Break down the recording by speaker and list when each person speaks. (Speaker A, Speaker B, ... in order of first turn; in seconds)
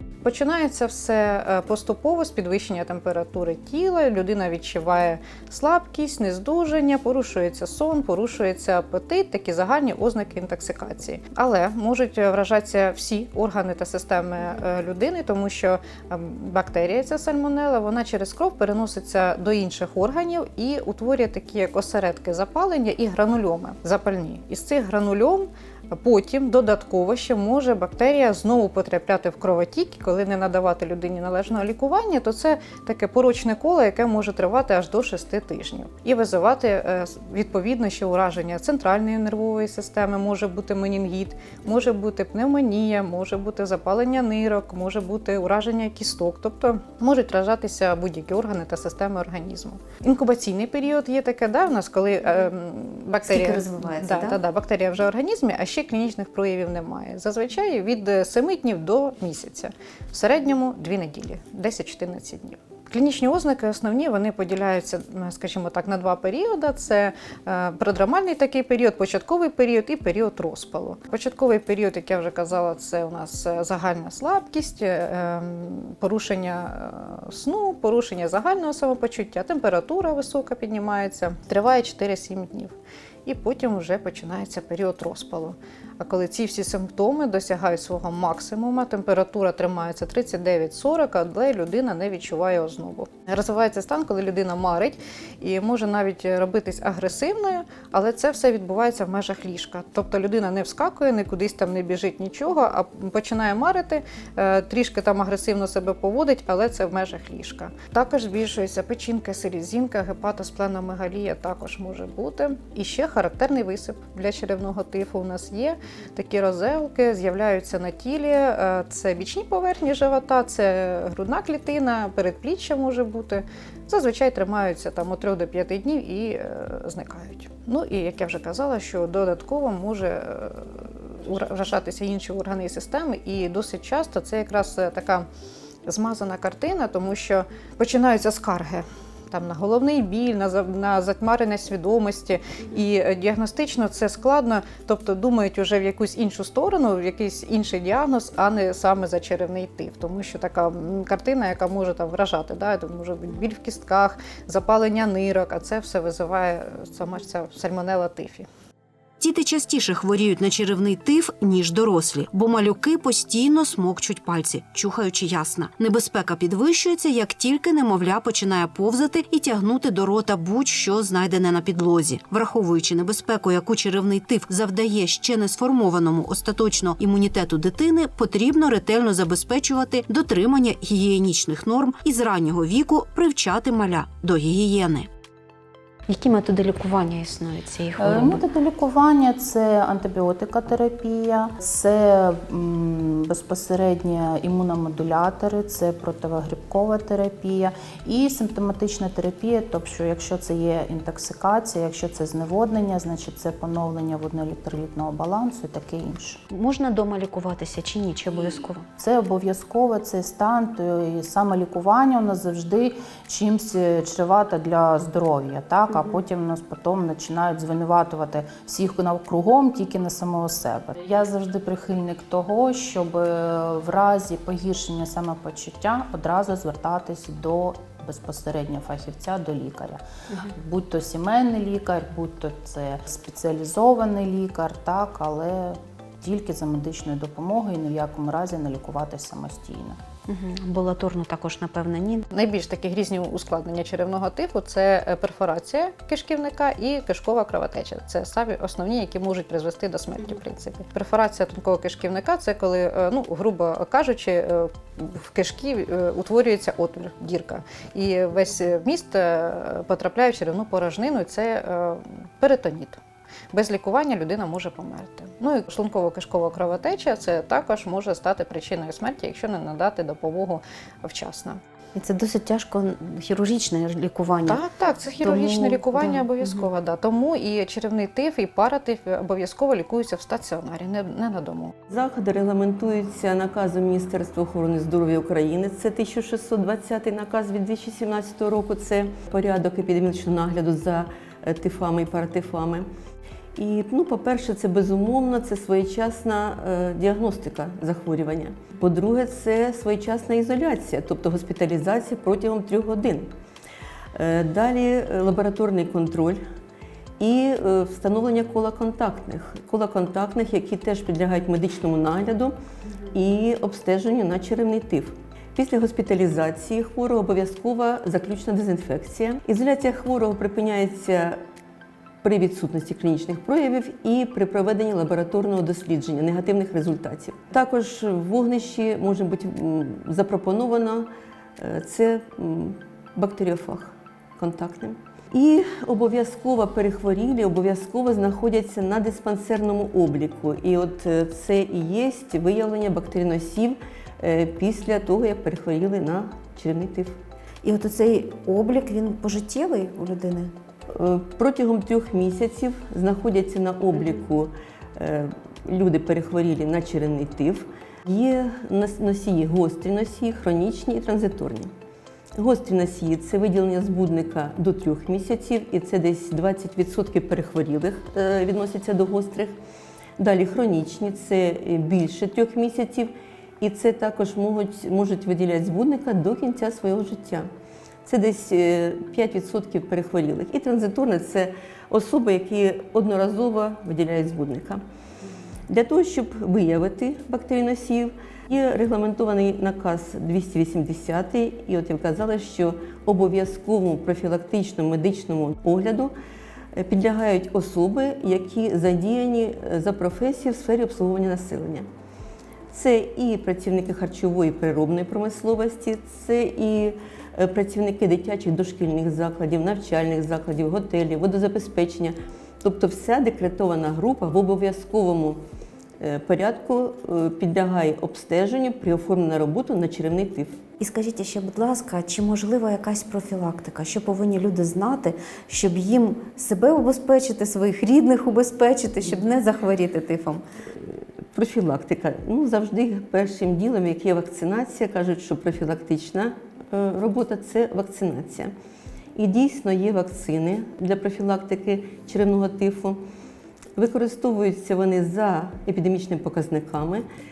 Speaker A: 0.2-135.3, 135.8-158.5, 242.3-263.0, 263.5-271.6, 274.5-281.7
Speaker B: 53.2-54.4, 159.2-185.1, 186.1-188.4, 206.5-208.8, 240.2-242.3, 271.9-274.6, 275.2-276.6, 347.6-350.5, 420.8-430.4
Speaker C: 188.0-206.4, 209.0-240.0
Speaker D: 281.9-292.9, 293.5-303.3, 304.1-306.4, 307.2-312.5, 313.1-321.4, 322.2-347.2, 350.9-361.7, 362.4-369.6, 370.2-377.5, 378.0-384.8, 385.7-396.1, 396.7-401.9, 402.7-415.4, 416.0-420.6, 430.8-438.5, 439.1-443.0, 443.8-447.1